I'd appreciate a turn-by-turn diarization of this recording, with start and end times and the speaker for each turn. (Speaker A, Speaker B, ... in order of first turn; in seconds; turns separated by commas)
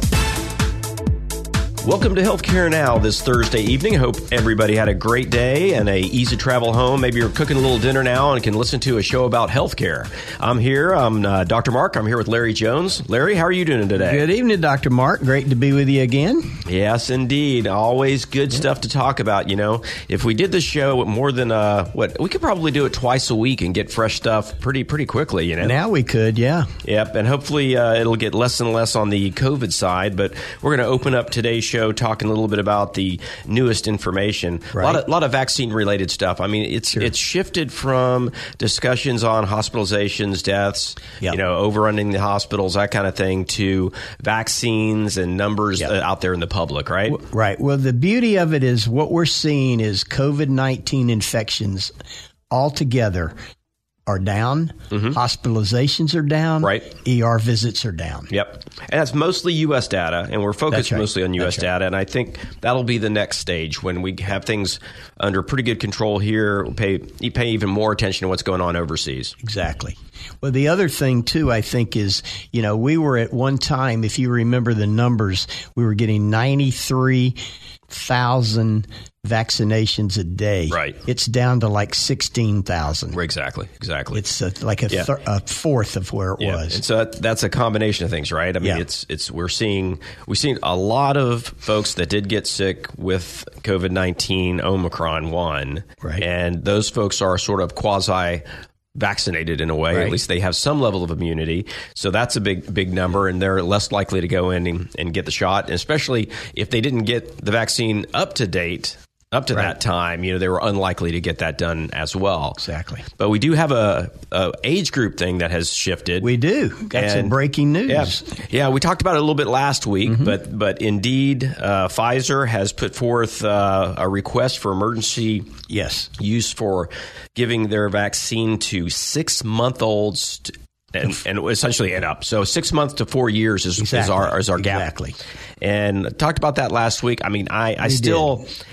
Speaker A: 1.8-14.2, Speaker B: 14.0-16.6, Speaker A: 16.7-25.8, Speaker B: 25.6-26.7, Speaker A: 26.8-47.2, Speaker B: 34.8-35.0, Speaker B: 47.1-51.9, Speaker B: 52.5-53.4, Speaker B: 54.1-58.3, Speaker A: 54.9-55.2, Speaker A: 58.3-69.3, Speaker B: 60.7-61.7, Speaker B: 69.4-77.4, Speaker B: 77.9-83.2, Speaker A: 80.7-81.0, Speaker A: 83.1-84.2, Speaker B: 84.1-86.8, Speaker A: 86.4-112.6, Speaker B: 99.9-100.2, Speaker B: 112.6-113.0, Speaker A: 113.1-116.3, Speaker B: 116.2-118.3, Speaker A: 116.9-117.3, Speaker A: 117.9-125.5, Speaker B: 125.7-126.1, Speaker A: 126.2-134.9, Speaker B: 133.8-135.2, Speaker A: 135.6-138.5, Speaker B: 137.8-138.4